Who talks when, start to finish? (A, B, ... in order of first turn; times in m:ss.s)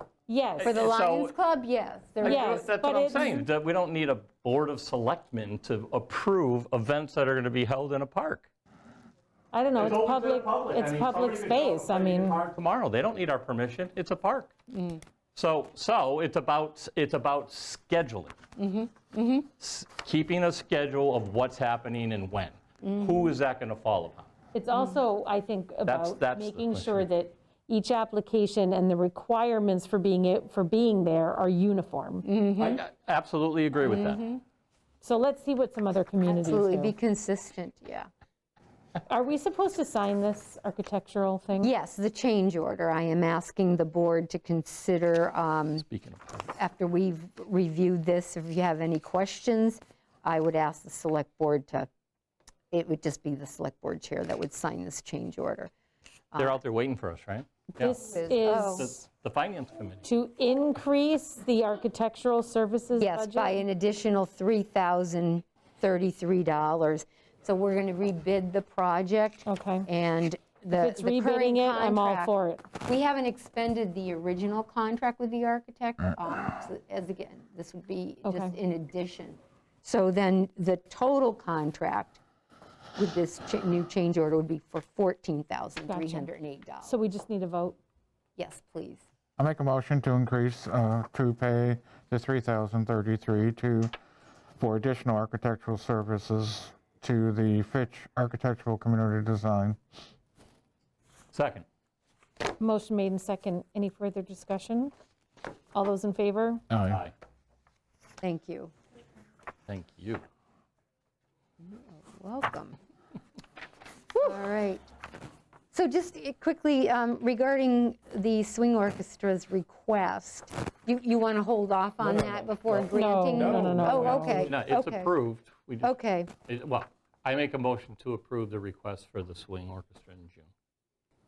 0:00.3-0:00.8 A
0:00.6-0:01.3 B
0:00.6-0:02.7 C
0:02.2-0:08.5 B
0:02.2-0:03.5 A
0:09.5-0:12.4 A
0:09.7-0:14.5 B
0:14.7-0:15.0 C
0:15.3-0:18.3 B
0:18.6-0:19.5 C
0:19.6-0:24.3 B
0:22.8-0:23.3 C
0:24.5-0:32.3 A
0:24.7-0:25.0 C
0:25.8-0:27.1 B
0:32.2-0:32.8 C
0:32.6-0:34.2 B
0:33.8-0:34.4 C
0:35.0-0:36.9 A
0:36.2-0:38.1 C
0:39.1-0:41.7 A
0:41.6-0:45.8 C
0:45.8-0:46.5 B
0:46.6-0:51.9 C
0:52.7-0:55.7 C
0:56.3-0:56.6 C
0:56.4-1:00.0 B
0:57.8-0:59.0 A
0:58.0-0:58.9 C
1:00.0-1:03.6 A
1:03.0-1:12.3 C
1:09.4-1:09.8 A
1:10.7-1:12.6 A
1:12.8-1:22.2 C
1:18.2-1:18.6 A
1:23.0-1:26.9 C
1:25.9-1:26.3 A
1:26.8-1:27.8 A
1:28.4-1:29.0 C
1:29.4-1:33.9 D
1:34.6-1:39.8 D
1:41.3-1:41.6 B
1:42.6-1:44.9 A
1:45.7-1:46.6 A
1:46.7-1:47.0 D
1:46.9-1:47.1 B
1:48.2-1:48.7 C
1:49.7-1:50.2 B
1:51.6-1:52.8 C
1:54.1-1:54.8 C
1:55.7-2:05.1 C
2:02.0-2:05.9 B
2:02.9-2:04.5 A
2:05.8-2:06.3 C
2:06.5-2:10.5 B